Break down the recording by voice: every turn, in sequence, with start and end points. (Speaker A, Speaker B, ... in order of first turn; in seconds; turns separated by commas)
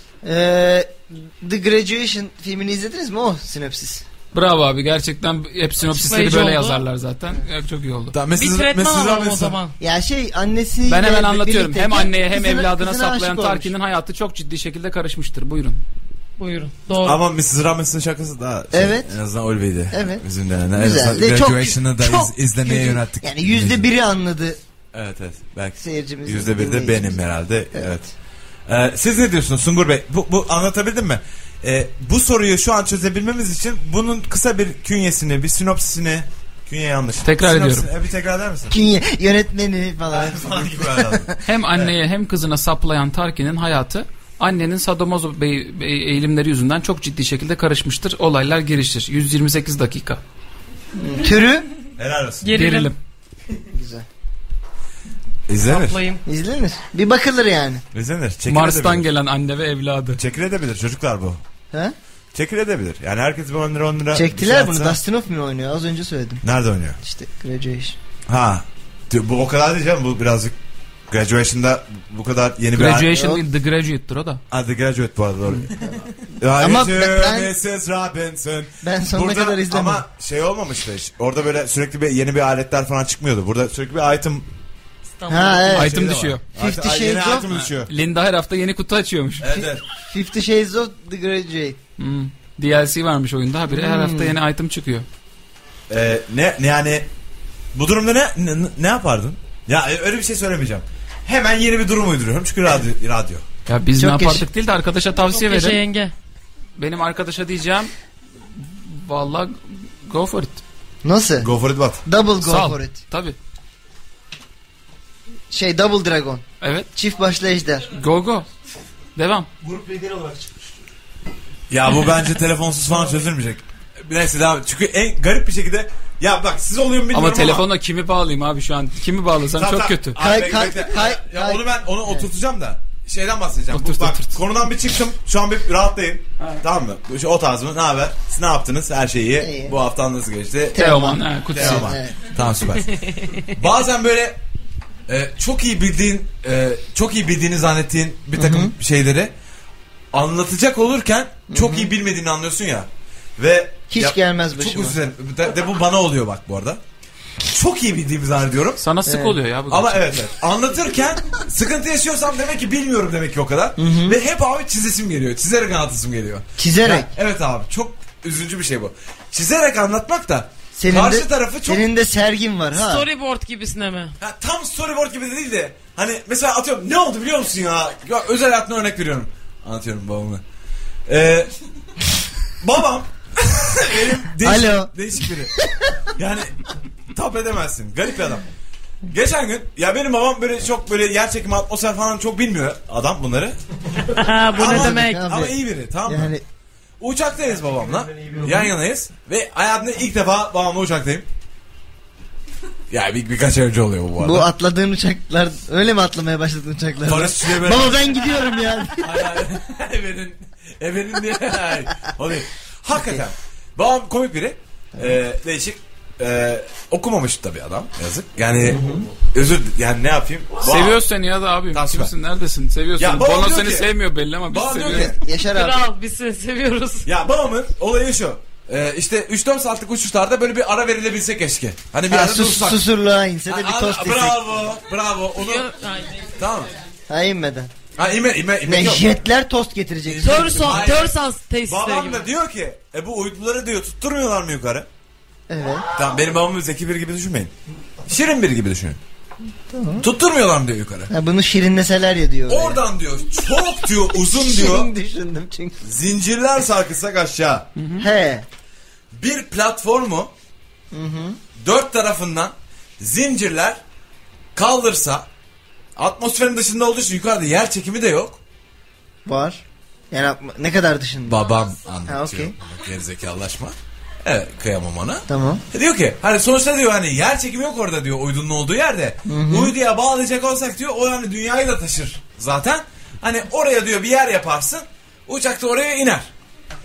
Speaker A: 0.2-4.0, Speaker B: 4.3-8.2, Speaker C: 5.8-6.8, Speaker D: 8.1-9.6, Speaker C: 8.3-9.7, Speaker A: 9.8-13.7, Speaker B: 10.9-15.8, Speaker C: 16.4-17.2, Speaker D: 17.0-23.9, Speaker A: 18.7-19.1, Speaker A: 19.9-24.6, Speaker D: 24.9-28.1, Speaker A: 25.8-27.2, Speaker D: 28.7-38.7, Speaker B: 37.2-37.9, Speaker A: 38.7-41.4, Speaker D: 40.1-41.9, Speaker B: 41.5-50.2, Speaker A: 51.0-51.7, Speaker D: 52.0-52.5, Speaker C: 52.4-52.9, Speaker B: 52.5-53.0, Speaker A: 53.7-54.1, Speaker D: 55.5-56.0, Speaker C: 55.6-56.2, Speaker A: 56.3-57.8, Speaker D: 57.9-59.1, Speaker B: 58.5-60.2, Speaker D: 60.2-61.4, Speaker D: 62.3-65.0, Speaker A: 64.1-66.4, Speaker D: 66.4-67.0, Speaker A: 67.0-68.0, Speaker D: 68.3-70.5, Speaker D: 71.1-73.1, Speaker B: 72.7-74.4, Speaker A: 73.1-73.4, Speaker D: 74.5-84.5, Speaker A: 76.6-77.5, Speaker A: 78.8-80.0, Speaker C: 85.2-85.8, Speaker A: 85.3-86.0, Speaker B: 85.7-86.4, Speaker D: 85.7-87.9, Speaker A: 86.6-87.5, Speaker B: 87.5-89.5, Speaker D: 89.4-89.8, Speaker A: 89.5-91.8, Speaker B: 92.0-95.1, Speaker A: 93.7-94.4, Speaker D: 95.9-97.1, Speaker D: 97.7-103.4, Speaker B: 103.7-105.8, Speaker A: 104.0-104.5, Speaker C: 105.2-106.1, Speaker B: 106.8-107.9, Speaker B: 108.5-110.6, Speaker A: 111.0-111.5, Speaker D: 111.4-112.0, Speaker A: 112.0-113.0, Speaker B: 112.4-113.4, Speaker A: 115.5-117.9, Speaker B: 116.6-116.9, Speaker B: 118.0-118.5, Speaker B: 119.2-119.5, Speaker E: 119.6-120.9, Speaker D: 121.7-127.7, Speaker B: 127.1-130.2, Speaker D: 129.6-140.8, Speaker A: 130.2-132.3, Speaker B: 133.7-134.4, Speaker A: 139.4-139.8, Speaker A: 140.7-142.3, Speaker B: 140.8-141.9, Speaker D: 141.5-144.4, Speaker D: 145.1-149.3, Speaker A: 148.3-148.7, Speaker D: 150.1-156.8, Speaker A: 151.5-151.9, Speaker A: 153.9-155.0, Speaker D: 157.5-158.8, Speaker B: 158.8-160.2, Speaker A: 159.1-159.4, Speaker D: 159.7-171.9, Speaker A: 163.8-164.2, Speaker A: 166.6-167.1, Speaker A: 170.8-173.1, Speaker C: 172.7-174.1, Speaker D: 174.2-180.4, Speaker D: 181.1-181.5, Speaker D: 182.6-185.6, Speaker A: 184.4-184.9, Speaker A: 185.6-185.9, Speaker D: 186.2-186.6, Speaker D: 187.1-188.5, Speaker D: 189.1-193.6, Speaker C: 194.0-195.2, Speaker D: 194.6-196.3, Speaker A: 194.6-196.4, Speaker D: 197.0-201.3, Speaker E: 197.4-198.8, Speaker D: 202.9-204.5, Speaker A: 204.2-209.4, Speaker D: 207.1-208.2, Speaker D: 209.0-221.0, Speaker A: 212.9-213.2, Speaker A: 218.6-219.1, Speaker B: 220.6-225.1, Speaker D: 221.7-222.1, Speaker D: 223.0-223.9, Speaker D: 224.5-225.2, Speaker A: 224.9-225.9, Speaker C: 225.4-227.1, Speaker D: 227.1-232.8, Speaker A: 232.1-234.6, Speaker D: 233.5-235.7, Speaker C: 235.4-236.3, Speaker D: 236.3-236.7, Speaker A: 237.1-237.7, Speaker D: 238.0-239.1, Speaker A: 238.6-241.0, Speaker D: 240.1-244.9, Speaker C: 240.2-242.3, Speaker A: 245.5-245.9, Speaker D: 246.0-247.5, Speaker D: 248.1-249.0, Speaker A: 249.7-250.1, Speaker D: 250.0-251.1, Speaker A: 251.1-252.8, Speaker D: 252.5-254.9, Speaker A: 254.3-255.8, Speaker D: 255.8-257.7, Speaker B: 257.8-258.1, Speaker A: 258.0-258.5, Speaker D: 259.1-260.3, Speaker A: 260.9-261.4, Speaker D: 261.6-263.8, Speaker D: 264.6-265.3, Speaker D: 266.0-268.4, Speaker A: 269.2-271.4, Speaker D: 271.3-286.3, Speaker A: 272.1-272.6, Speaker A: 275.3-275.6, Speaker A: 279.3-279.8